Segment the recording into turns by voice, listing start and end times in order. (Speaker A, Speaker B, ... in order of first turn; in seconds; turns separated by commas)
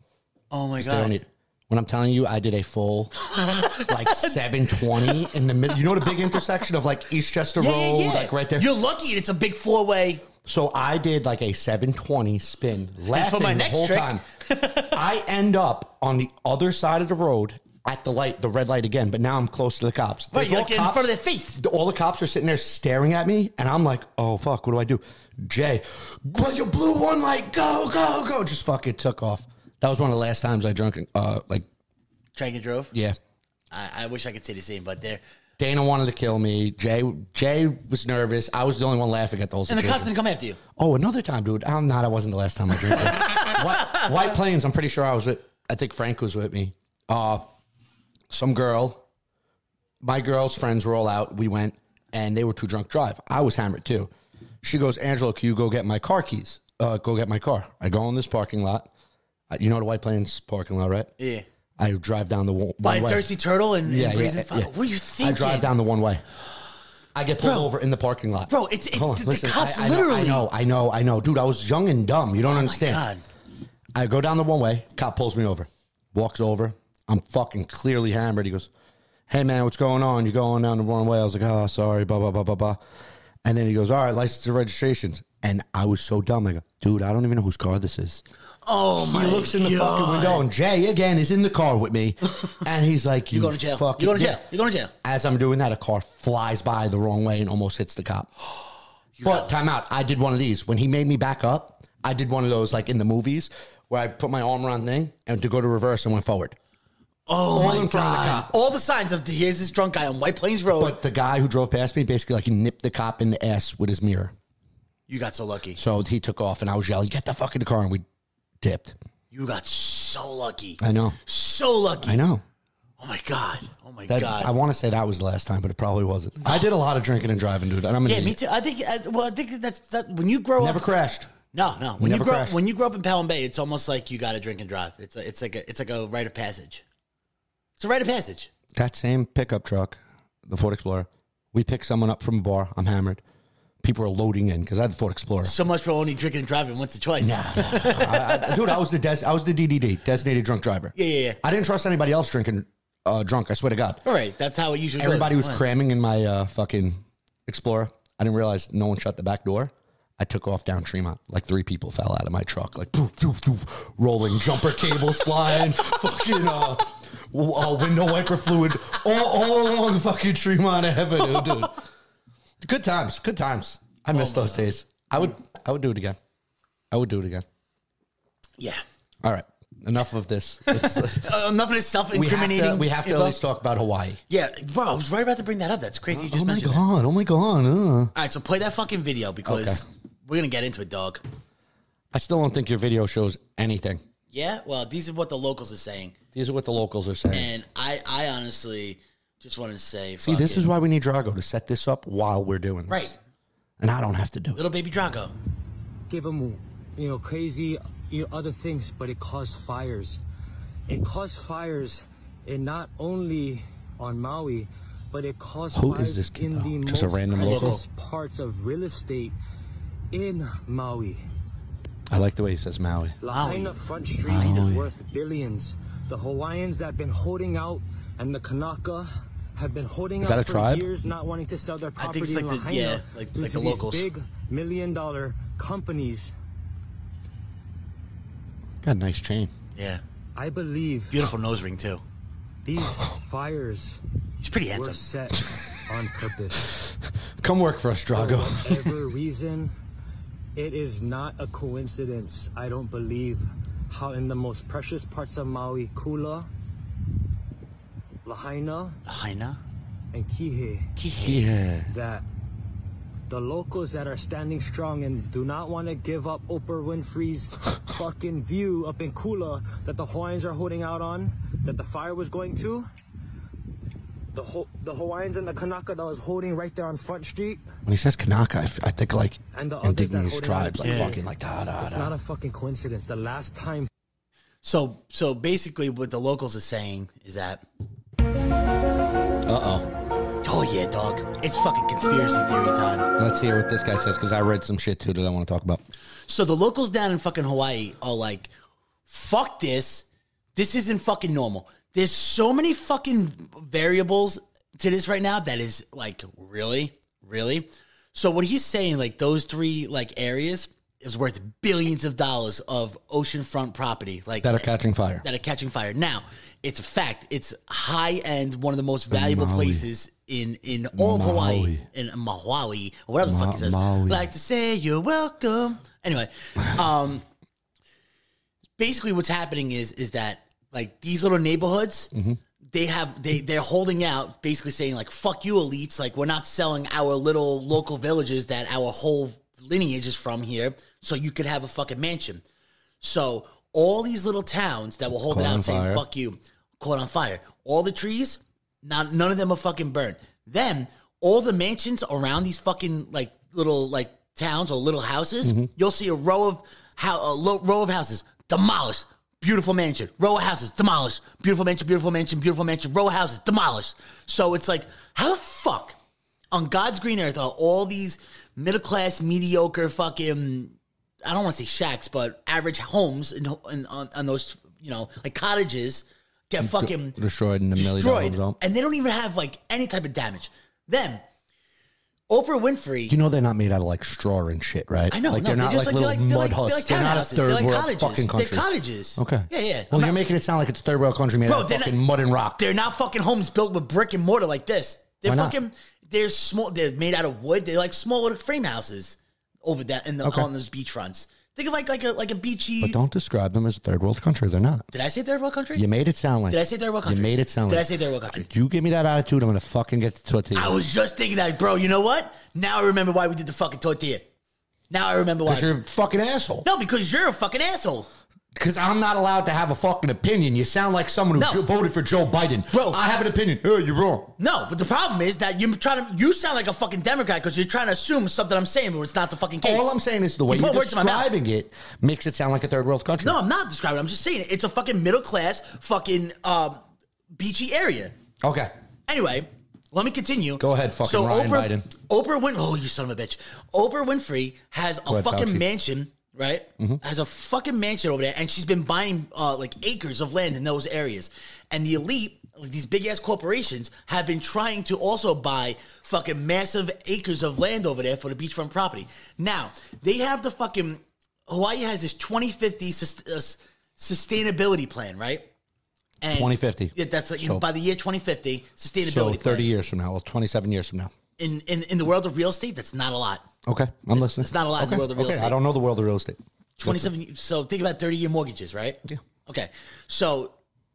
Speaker A: 0.5-1.2, Speaker B: 0.8-3.1, Speaker A: 3.2-5.4, Speaker B: 3.7-8.7, Speaker A: 6.0-6.4, Speaker A: 7.6-10.3, Speaker B: 10.4-14.2, Speaker A: 13.1-15.0, Speaker B: 14.9-31.7, Speaker A: 20.3-21.6, Speaker A: 32.4-32.9, Speaker B: 32.9-33.2, Speaker A: 33.7-35.2, Speaker B: 35.6-40.1, Speaker A: 39.7-40.6, Speaker B: 40.8-47.5, Speaker A: 42.9-44.0, Speaker B: 48.3-49.0, Speaker B: 50.0-54.1, Speaker B: 54.6-58.9, Speaker B: 59.5-61.1, Speaker A: 61.2-61.5, Speaker B: 61.8-63.3, Speaker A: 62.8-65.7, Speaker B: 63.9-66.2, Speaker B: 67.2-73.0, Speaker A: 67.4-67.7, Speaker A: 68.5-70.5, Speaker A: 72.4-73.2, Speaker B: 74.0-78.7, Speaker B: 79.3-82.8, Speaker B: 83.4-88.2, Speaker A: 88.7-90.5, Speaker B: 89.0-94.5, Speaker A: 93.3-94.9, Speaker B: 95.0-98.3, Speaker A: 99.2-99.5, Speaker B: 99.2-106.6, Speaker A: 107.3-111.0, Speaker B: 107.5-108.5, Speaker B: 110.8-114.3, Speaker A: 115.1-115.8, Speaker B: 115.8-118.0, Speaker B: 118.6-119.0, Speaker A: 119.3-122.2, Speaker B: 120.8-121.2, Speaker B: 122.0-122.4, Speaker A: 123.0-124.5, Speaker B: 124.1-128.4, Speaker A: 126.4-126.7, Speaker A: 128.1-130.9, Speaker B: 130.6-131.3, Speaker A: 131.5-136.8, Speaker B: 132.0-132.6, Speaker A: 137.8-138.5, Speaker B: 138.7-143.2, Speaker B: 143.8-145.6, Speaker A: 145.4-148.8, Speaker B: 147.2-154.0, Speaker A: 150.9-151.4, Speaker A: 154.1-155.6, Speaker B: 155.0-171.8, Speaker B: 172.6-176.2, Speaker A: 174.1-174.7, Speaker B: 176.9-177.4, Speaker B: 179.2-181.3, Speaker A: 180.7-183.4, Speaker B: 182.1-184.2, Speaker A: 184.3-186.8, Speaker B: 186.1-188.1, Speaker A: 188.2-191.2, Speaker B: 189.5-189.8, Speaker B: 192.1-194.0, Speaker A: 194.3-196.2, Speaker B: 196.3-197.5, Speaker A: 197.3-200.7, Speaker B: 200.2-203.2, Speaker A: 202.9-203.2, Speaker B: 203.8-204.6, Speaker A: 204.6-205.3, Speaker C: 206.1-210.2, Speaker C: 210.9-219.3, Speaker B: 215.8-217.8, Speaker A: 217.4-217.8, Speaker C: 220.1-221.2, Speaker B: 222.1-223.2, Speaker C: 223.2-236.3, Speaker A: 223.3-223.8, Speaker B: 224.2-224.9, Speaker B: 230.2-230.9, Speaker A: 232.0-234.1, Speaker B: 238.8-239.5, Speaker A: 239.8-240.0, Speaker C: 240.4-241.3, Speaker A: 241.1-242.0, Speaker C: 242.6-244.0, Speaker A: 244.4-245.0, Speaker C: 244.7-246.7, Speaker B: 247.4-248.9, Speaker C: 248.1-249.8, Speaker C: 250.6-256.5, Speaker C: 258.2-259.0, Speaker A: 259.1-259.6, Speaker C: 260.1-262.2, Speaker B: 261.1-261.9, Speaker C: 263.3-272.9, Speaker C: 274.3-277.6, Speaker B: 277.9-282.1, Speaker C: 279.5-283.9, Speaker A: 280.8-281.2, Speaker A: 284.6-287.6, Speaker B: 289.5-289.9, Speaker A: 290.4-293.1, Speaker B: 293.2-295.8, Speaker A: 296.3-298.5, Speaker A: 299.1-314.7, Speaker B: 314.4-315.2, Speaker A: 315.2-327.2, Speaker B: 319.1-319.9, Speaker B: 321.0-321.9, Speaker B: 323.2-324.3, Speaker A: 328.8-332.1, Speaker B: 332.1-332.4, Speaker A: 332.7-342.4, Speaker A: 343.0-366.0, Speaker B: 345.3-346.1, Speaker B: 355.4-355.7, Speaker A: 366.5-377.2, Speaker B: 376.6-378.6, Speaker A: 377.8-381.2, Speaker A: 382.3-383.1, Speaker B: 383.1-392.6, Speaker A: 385.1-390.1, Speaker A: 391.4-391.9, Speaker A: 392.6-403.0, Speaker B: 395.2-395.6, Speaker B: 402.8-404.9, Speaker A: 404.9-405.8, Speaker B: 405.8-410.8, Speaker A: 406.5-408.5, Speaker A: 410.5-414.2, Speaker A: 414.9-415.7, Speaker B: 415.5-416.6, Speaker A: 416.6-418.1, Speaker B: 418.6-424.3, Speaker A: 421.4-421.6, Speaker A: 422.7-423.0, Speaker A: 424.4-429.9, Speaker B: 429.6-433.4, Speaker A: 430.5-431.3, Speaker A: 433.2-438.1, Speaker B: 438.4-438.7, Speaker A: 439.1-465.5, Speaker B: 440.6-441.9, Speaker B: 445.1-445.6, Speaker A: 466.2-469.7, Speaker B: 466.3-467.6, Speaker B: 469.1-471.1, Speaker A: 471.4-473.5, Speaker B: 473.7-477.1, Speaker A: 474.1-475.6, Speaker A: 476.8-480.6